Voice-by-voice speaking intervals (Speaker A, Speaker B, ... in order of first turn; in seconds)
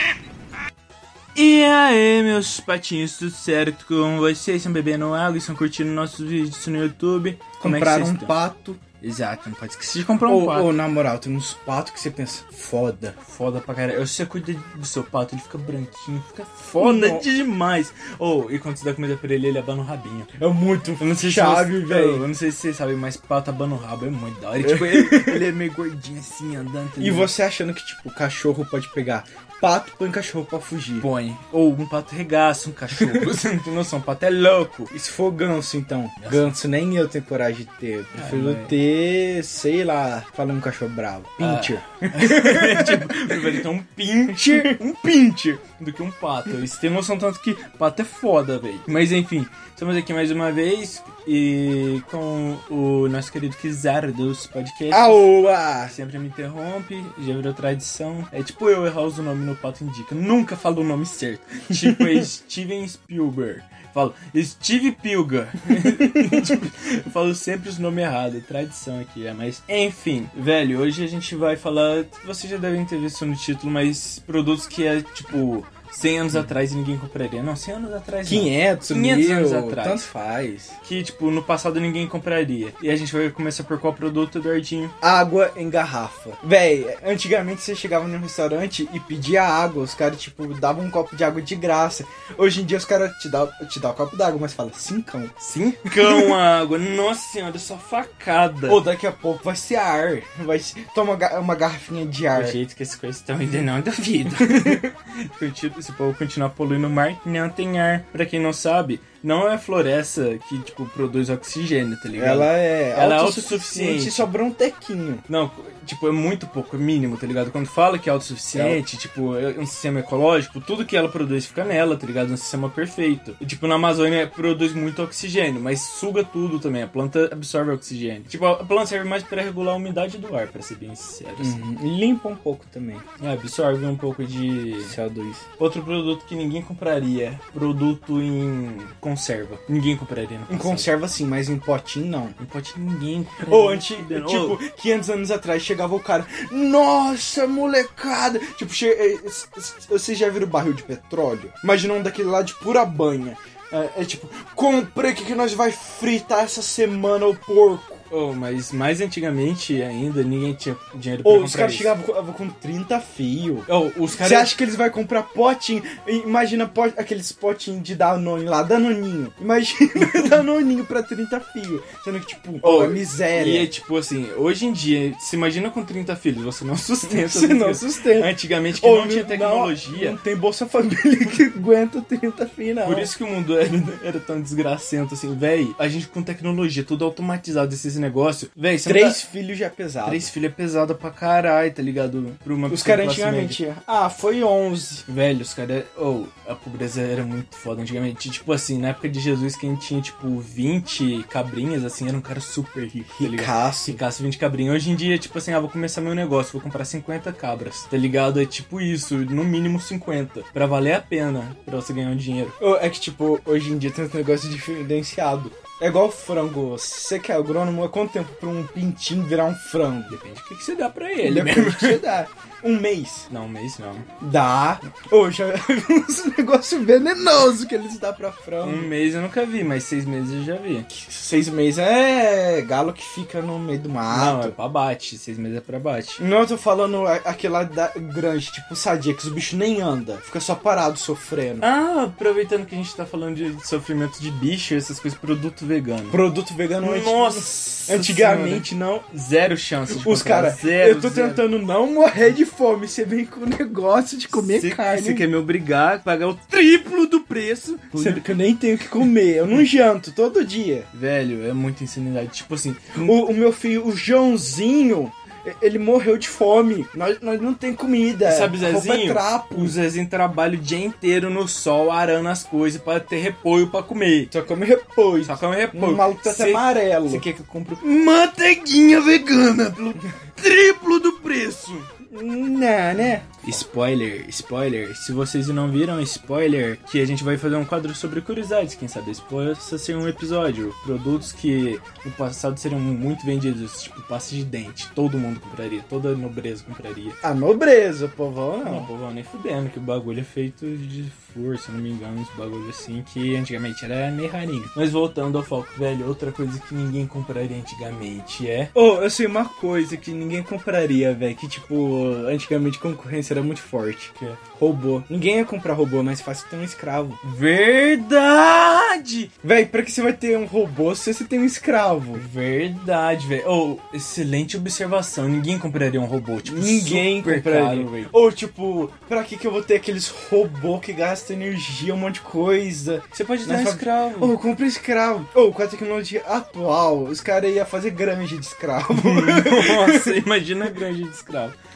Speaker A: 1.4-8.3, 9.0-10.7, 13.2-20.3, 21.0-27.3, 31.0-34.9, 36.2-36.6, 38.1-38.8, 41.4-55.3, 55.9-80.1, 80.8-85.0, 95.4-98.8, 102.3-114.3, 115.3-131.6, 133.2-135.0, 135.6-140.9, 142.4-144.6, 158.1-161.9, 163.7-164.5, 170.0-170.3, 172.6-180.2, 182.8-189.2, 190.1-193.6, 195.1-212.6, 220.1-222.0, 223.3-224.1, 228.6-230.9, 234.1-236.2, 241.6-246.2, 246.8-251.4, 254.3-258.3, 260.9-263.2, 268.2-274.3, 275.2-281.9, 283.4-297.2, 298.6-308.7, 317.2-319.3, 322.1-328.1, 333.1-334.4, 338.9-341.6
Speaker B: 7.6-8.8, 10.3-13.2, 16.7-17.3, 20.4-22.3, 24.6-25.4, 27.0-31.1, 33.0-33.3, 34.9-43.4, 44.3-45.0, 54.9-55.9, 61.8-62.3, 65.9-66.4, 78.2-80.8, 85.0-95.3, 95.9-96.4, 98.7-102.6, 104.4-104.8, 112.1-115.2, 118.5-118.8, 131.4-133.1, 134.8-135.4, 140.5-142.4, 143.4-158.0, 161.2-173.7, 177.1-183.1, 188.9-190.3, 192.7-195.1, 203.2-204.0, 212.6-220.2, 221.2-223.3, 224.2-228.9, 230.9-234.6, 236.2-241.7, 246.1-249.1, 249.9-255.3, 257.9-260.9, 263.0-269.8, 274.3-277.2, 282.1-283.6, 297.2-298.9, 308.8-317.2, 319.4-322.2, 326.4-340.2